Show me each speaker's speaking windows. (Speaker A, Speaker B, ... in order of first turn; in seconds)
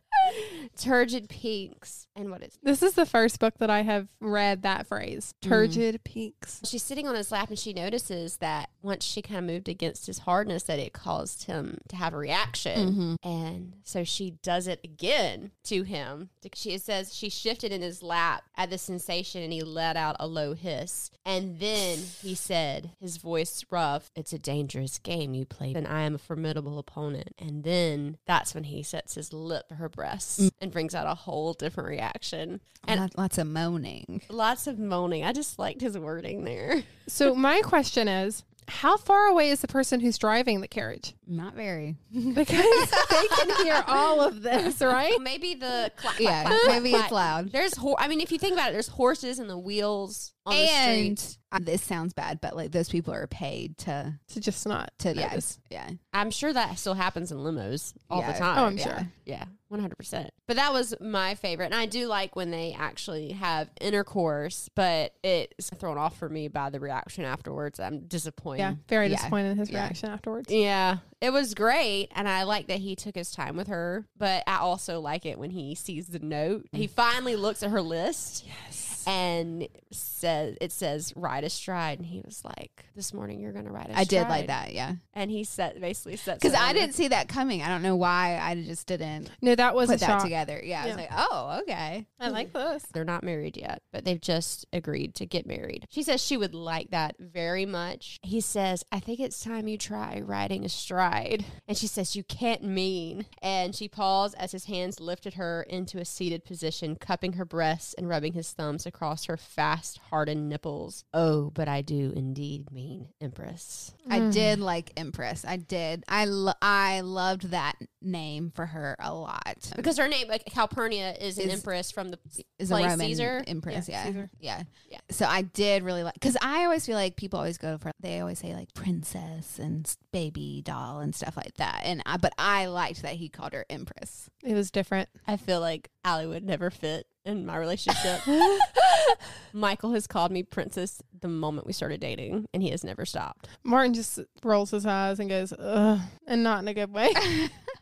Speaker A: 0.2-2.6, 6.6-33.0, 34.3-36.9, 45.1-51.2, 56.1-68.8, 70.5-78.5, 79.0-84.5, 85.1-86.9, 92.3-114.0, 119.8-123.5, 135.2-138.8, 139.5-143.5
Speaker B: 2.6-6.6, 37.1-41.1, 42.3-45.2, 46.4-46.9, 54.3-55.5, 58.5-59.0, 68.6-70.5, 78.4-79.0, 89.4-91.0, 92.2-92.9, 114.0-114.6, 123.7-124.3, 134.4-135.1, 143.6-147.5
Speaker C: 5.4-5.8, 12.8-13.2, 32.8-34.3, 41.3-44.7, 46.2-47.5, 50.5-54.2, 55.0-56.0, 58.1-59.1, 69.0-70.0, 83.9-85.0, 86.4-92.1, 114.1-119.9, 121.4-121.6, 122.6-134.3